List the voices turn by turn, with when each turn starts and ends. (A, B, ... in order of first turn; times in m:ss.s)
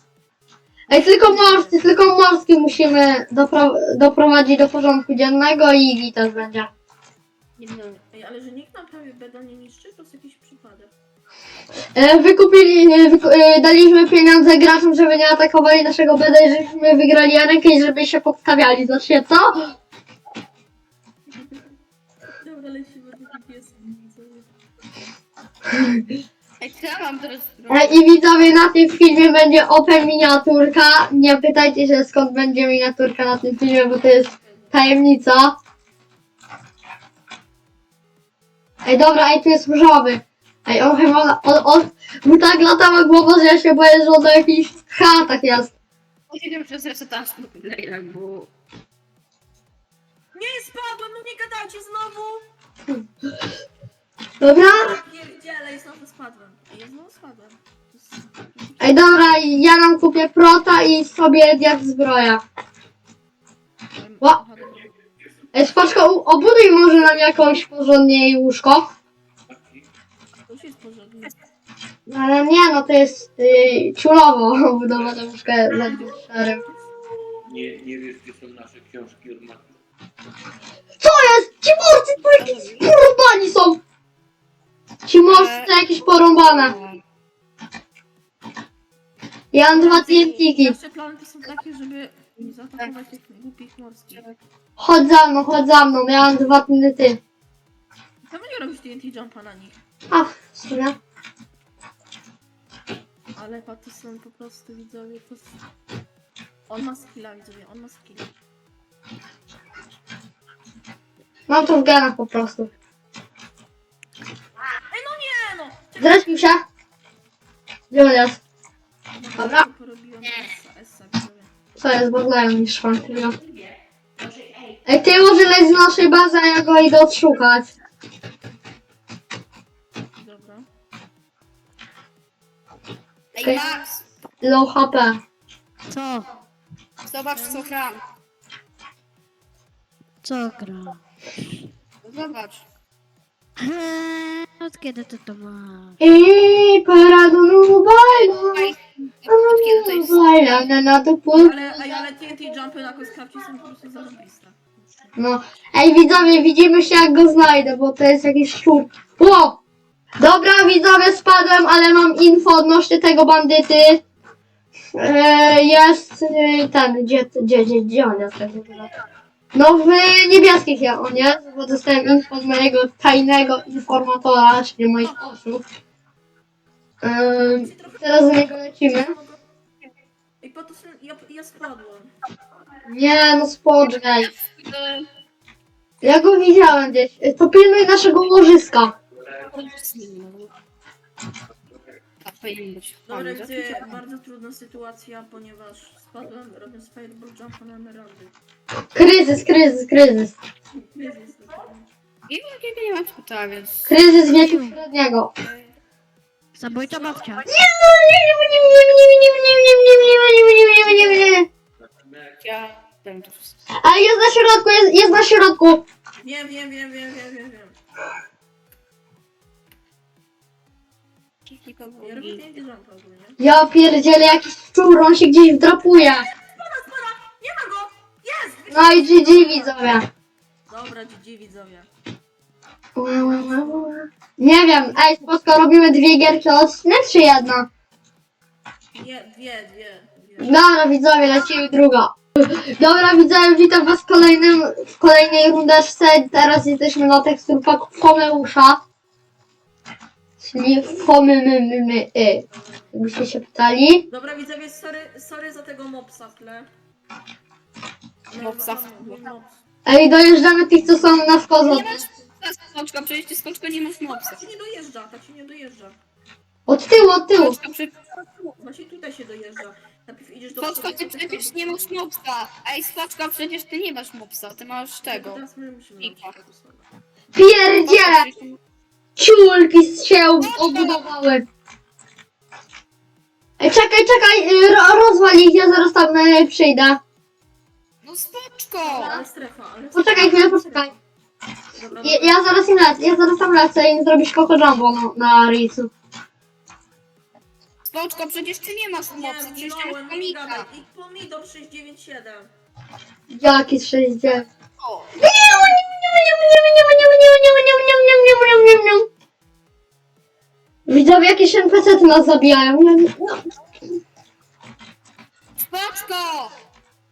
0:00.9-0:06.7 A
0:00.9-0:01.8 B
0:07.6-0:08.0 C
0:08.1-0:10.9 B
0:11.9-0:19.7 A
0:21.3-0:21.6 B
0:22.4-0:24.5 B
0:25.7-0:26.0 A
0:26.6-0:28.0 C
0:27.7-0:35.6 A
0:34.4-0:34.9 B
0:38.8-0:45.7 A
0:46.3-0:48.5 C
0:50.3-0:52.4 B
0:54.4-0:55.0 A
0:54.6-0:59.4 B
0:58.8-1:02.4 A
1:04.0-1:04.9 B
1:05.5-1:08.9 A
1:09.5-1:09.8 D
1:10.5-1:11.4 B
1:12.1-1:16.6 A
1:15.8-1:17.4 B
1:17.4-1:19.8 D
1:21.0-1:23.8 A
1:22.3-1:22.9 C
1:25.0-1:26.7 A
1:25.3-1:25.8 C
1:26.3-1:27.0 C
1:29.5-1:30.8 A
1:29.7-1:34.2 B
1:34.1-1:34.4 C
1:34.8-1:37.2 A
1:38.2-1:39.8 B
1:40.1-1:41.0 A
1:43.3-1:45.6 B
1:46.7-1:48.4 B
1:51.5-1:52.7 A
1:54.9-1:56.3 B
1:56.0-1:56.6 A
1:57.9-1:58.4 A
1:59.1-2:01.5 B
1:59.4-1:59.6 A
2:01.8-2:03.4 A
2:04.8-2:07.7 A
2:10.2-2:10.7 B
2:13.3-2:14.0 C
2:13.4-2:13.8 A
2:14.4-2:15.2 A
2:15.9-2:16.3 E
2:17.0-2:18.0 C
2:17.3-2:17.7 B
2:20.2-2:21.5 E
2:22.0-2:22.6 C
2:23.6-2:26.0 E
2:26.0-2:28.7 A
2:28.3-2:30.3 C
2:29.3-2:31.6 A
2:31.3-2:35.2 B
2:35.2-2:39.6 A
2:40.2-2:44.0 A
2:45.0-2:48.9 A
2:49.5-2:55.6 A
2:57.0-2:59.1 A
2:57.4-2:59.4 B
3:00.4-3:02.1 B
3:02.9-3:04.3 A
3:03.9-3:05.0 C
3:06.0-3:08.9 A
3:09.4-3:10.5 C
3:12.2-3:14.0 C
3:13.1-3:18.3 B
3:18.9-3:20.3 A
3:20.7-3:21.9 B
3:22.3-3:24.0 C
3:23.8-3:25.3 A
3:24.3-3:24.8 E
3:26.6-3:27.5 E
3:26.7-3:27.2 B
3:27.4-3:31.5 A
3:32.4-3:33.5 C
3:33.8-3:35.8 A
3:36.2-3:37.8 B
3:41.4-3:42.5 C
3:42.0-3:43.4 B
3:43.4-3:46.2 A
3:46.0-3:50.0 B
3:48.7-3:50.0 A
3:50.7-3:51.9 B
3:53.0-3:57.7 A
3:53.2-3:53.9 B
3:58.9-4:00.5 B
4:00.4-4:08.8 A
4:10.4-4:14.1 A
4:12.5-4:12.9 B
4:14.1-4:16.7 B
4:18.3-4:19.6 B
4:18.4-4:19.2 C
4:19.8-4:22.0 A
4:21.6-4:24.4 C
4:24.1-4:26.0 B
4:26.7-4:27.6 A
4:27.4-4:28.5 C
4:28.6-4:32.0 B
4:30.6-4:35.4 C
4:35.0-4:36.9 B
4:36.0-4:36.4 C
4:37.3-4:38.3 A
4:37.8-4:38.6 C
4:39.2-4:41.4 A
4:40.4-4:41.1 C
4:43.6-4:47.0 A
4:48.0-4:49.2 C
4:48.8-4:51.0 B
4:49.9-4:50.9 A
4:51.7-4:52.4 B
4:52.0-4:55.9 A
4:57.8-5:00.7 C
4:59.0-5:02.5 B
5:03.3-5:04.5 A
5:04.8-5:05.2 C
5:05.2-5:09.1 A
5:10.9-5:13.4 A
5:15.7-5:16.5 C